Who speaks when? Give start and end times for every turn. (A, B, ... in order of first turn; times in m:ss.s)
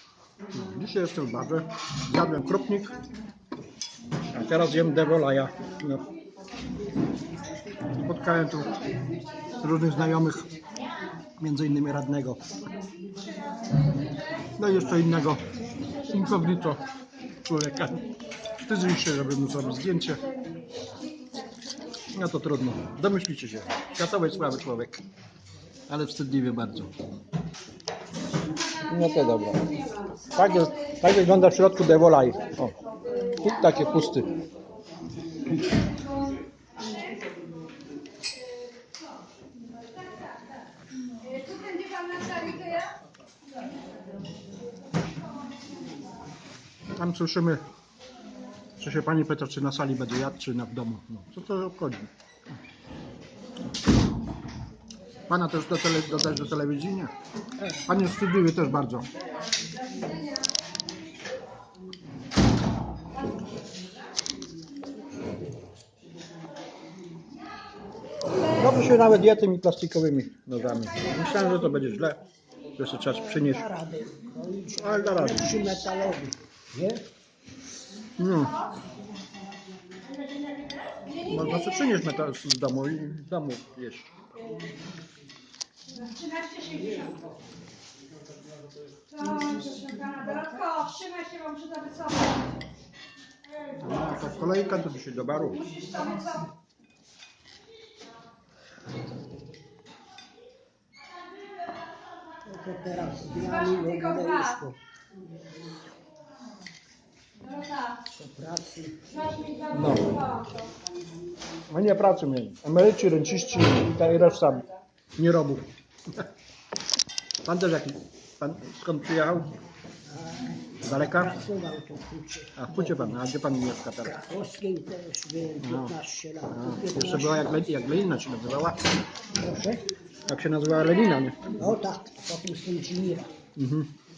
0:00.5-0:03.0 A
0:04.3-0:06.1 A
0:08.0-0:08.9 A
0:09.5-0:10.5 A
0:11.4-0:12.5 A
0:13.0-0:14.5 B
0:14.6-0:18.1 A
0:18.6-0:20.3 A
0:20.5-0:21.9 B
0:22.1-0:25.0 A
0:25.9-0:27.0 A
0:28.6-0:28.9 B
0:28.9-0:32.8 A
0:29.8-0:30.3 B
0:33.1-0:33.4 B
0:33.4-0:34.3 A
0:35.7-0:36.4 B
0:40.1-0:40.4 B
0:41.2-0:42.9 B
0:46.9-0:47.6 A
0:48.8-0:52.1 A
0:55.3-0:57.1 A
0:57.7-0:59.1 A
1:08.5-1:12.2 A
1:12.8-1:13.6 A
1:13.1-1:17.1 C
1:14.7-1:15.8 A
1:18.2-1:18.6 A
1:20.2-1:21.2 B
1:21.2-1:24.2 A
1:25.9-1:27.2 B
1:29.1-1:32.5 B
1:33.8-1:35.8 A
1:35.7-1:36.5 B
1:42.4-1:44.8 C
1:47.5-1:47.9 B
1:48.1-1:49.0 C
1:49.3-1:50.6 B
1:49.7-1:50.3 A
1:51.7-1:56.3 A
1:57.4-1:59.6 A
2:00.1-2:03.2 C
2:00.8-2:01.4 A
2:02.6-2:04.2 A
2:04.0-2:07.6 C
2:05.6-2:06.0 A
2:06.5-2:08.8 A
2:09.4-2:09.9 C
2:10.3-2:11.5 A
2:11.5-2:13.3 C
2:13.6-2:13.9 A